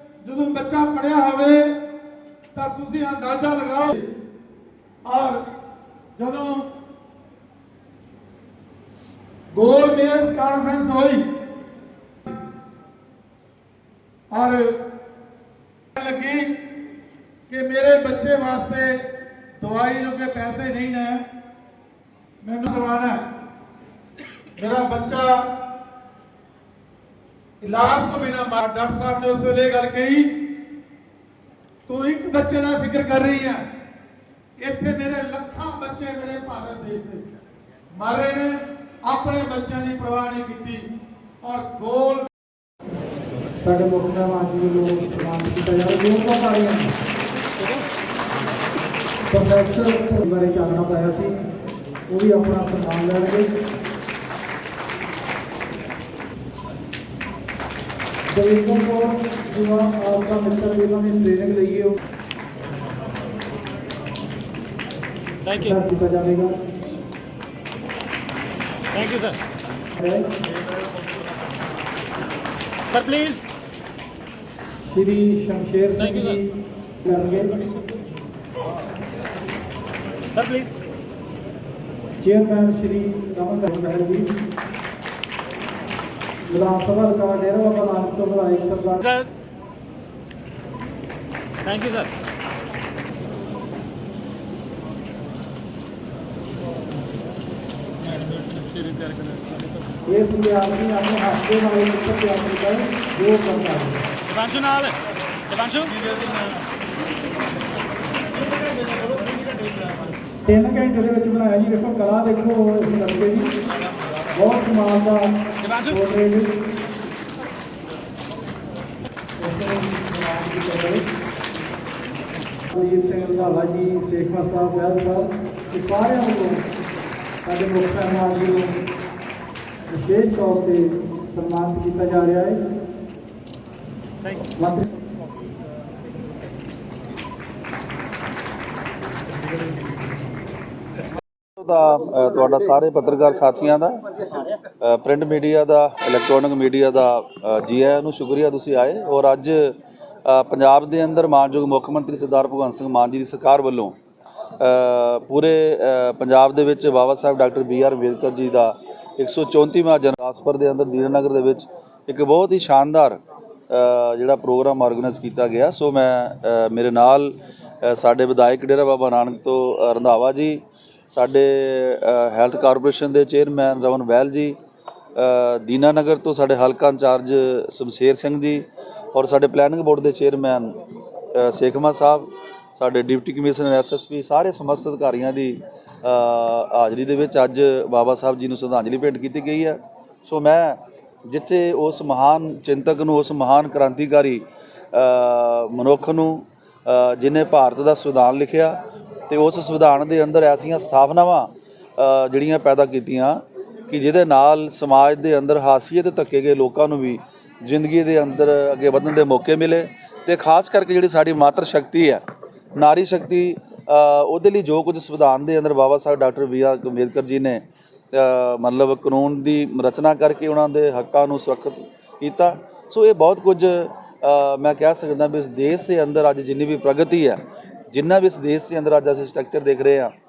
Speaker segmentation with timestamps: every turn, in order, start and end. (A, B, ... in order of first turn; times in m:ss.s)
0:00.2-0:01.8 A
0:02.5-0:04.1 A
0:05.0-0:05.5 A
0:06.2-0:06.7 A
0:09.5-0:11.3 A
0:14.3-0:14.9 A
0:15.9-0:16.6 A
0:17.5-0:21.3 A
0:22.4-0:23.3 A
0:24.6-0:25.6 A
0:27.6-0:30.4 A
0:31.8-0:33.6 A
0:34.6-0:37.2 A
0:37.9-0:40.9 A
0:41.4-0:42.3 A
0:43.5-0:46.9 B
0:49.3-0:51.5 B
0:52.1-0:53.5 B
0:58.3-1:02.0 B
1:05.5-1:06.6 B
1:08.9-1:09.4 C
1:09.9-1:10.3 B
1:12.9-1:13.4 C
1:14.8-1:17.6 B
1:20.3-1:20.7 C
1:22.2-1:24.3 B
1:26.5-1:29.3 B
1:31.6-1:32.1 C
1:38.2-1:39.6 C
1:40.0-1:44.1 B
1:44.3-1:46.0 C
1:50.4-1:53.6 B
1:54.3-1:56.6 B
1:59.4-2:01.0 B
2:02.7-2:06.7 B
2:07.4-2:08.8 B
2:09.9-2:12.7 B
2:14.6-2:14.9 B
2:21.6-2:24.0 D
2:24.7-2:33.9 D
2:34.6-2:54.6 D
2:55.2-3:00.8 D
3:01.3-3:32.2 D
3:32.8-3:50.1 D